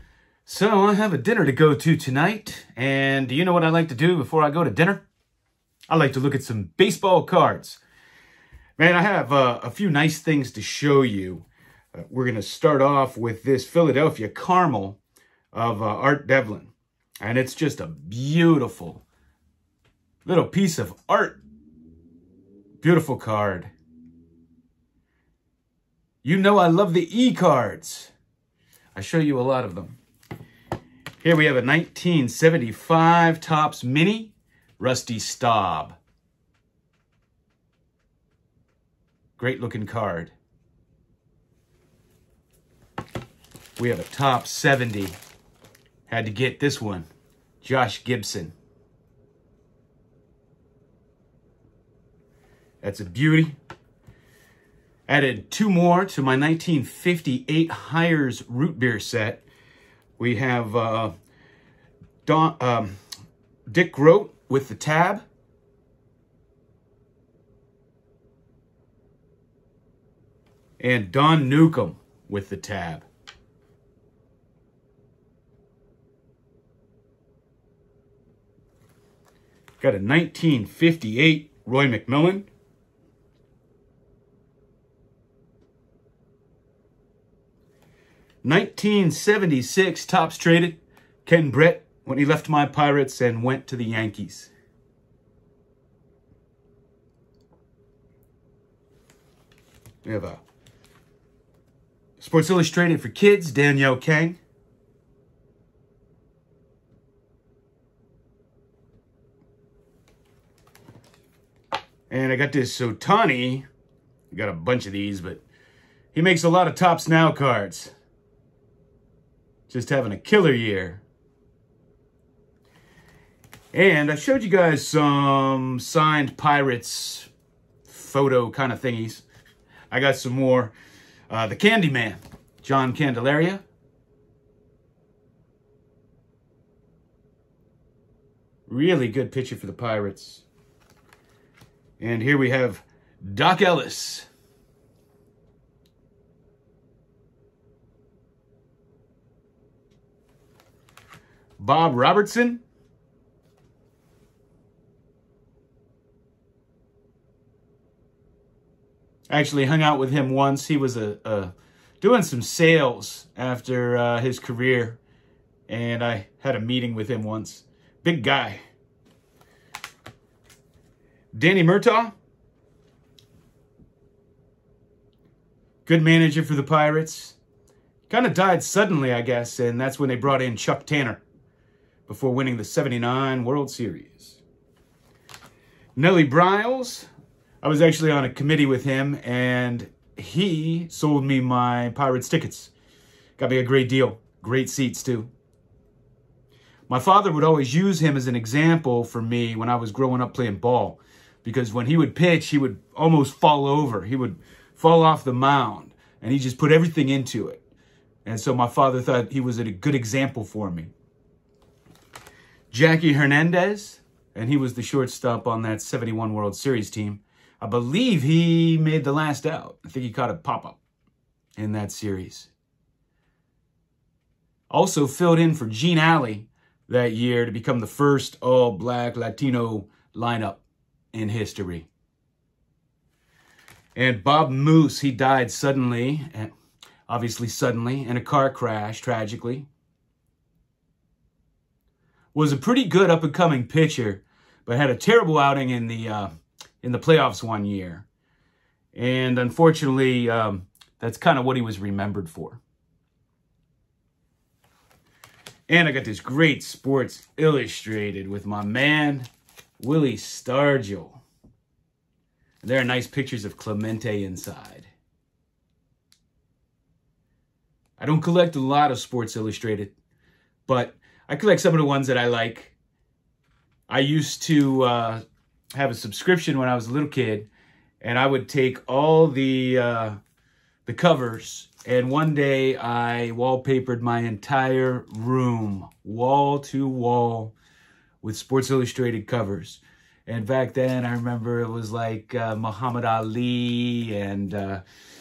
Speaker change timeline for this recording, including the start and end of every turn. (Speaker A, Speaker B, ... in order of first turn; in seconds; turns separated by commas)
Speaker A: 0.5-5.0, Speaker A: 5.9-7.8, Speaker A: 8.8-15.0, Speaker A: 15.5-19.0, Speaker A: 20.2-21.4, Speaker A: 22.8-23.7, Speaker A: 26.2-28.1, Speaker A: 28.9-30.0, Speaker A: 31.2-36.0, Speaker A: 39.4-40.3, Speaker A: 43.8-45.1, Speaker A: 46.1-47.0, Speaker A: 47.6-48.5, Speaker A: 52.8-53.5, Speaker A: 55.1-59.4, Speaker A: 60.2-61.1, Speaker A: 62.2-63.0, Speaker A: 63.7-65.2, Speaker A: 70.8-73.0, Speaker A: 79.8-82.5, Speaker A: 88.4-94.5, Speaker A: 100.0-100.4, Speaker A: 102.2-104.4, Speaker A: 112.1-113.7, Speaker A: 114.3-115.4, Speaker A: 116.1-117.9, Speaker A: 119.7-121.0, Speaker A: 123.7-127.3, Speaker A: 127.8-129.2, Speaker A: 129.9-130.7, Speaker A: 131.3-133.6, Speaker A: 138.7-140.4, Speaker A: 142.0-144.3, Speaker A: 151.6-152.6, Speaker A: 159.3-165.0, Speaker A: 165.7-168.6, Speaker A: 171.3-172.1, Speaker A: 175.8-177.4, Speaker A: 178.1-181.2, Speaker A: 182.1-184.4, Speaker A: 185.9-187.1, Speaker A: 187.6-192.7, Speaker A: 193.4-195.3, Speaker A: 196.9-207.6, Speaker A: 208.2-210.9, Speaker A: 212.7-220.8, Speaker A: 221.6-222.5, Speaker A: 224.7-231.9, Speaker A: 233.9-236.5, Speaker A: 237.1-239.7, Speaker A: 242.3-248.1, Speaker A: 248.9-252.6, Speaker A: 255.7-259.3, Speaker A: 259.8-261.2, Speaker A: 262.6-264.9, Speaker A: 268.0-269.9, Speaker A: 270.7-272.7, Speaker A: 273.9-275.2, Speaker A: 275.7-277.5, Speaker A: 278.0-280.2, Speaker A: 280.9-287.5, Speaker A: 288.2-294.8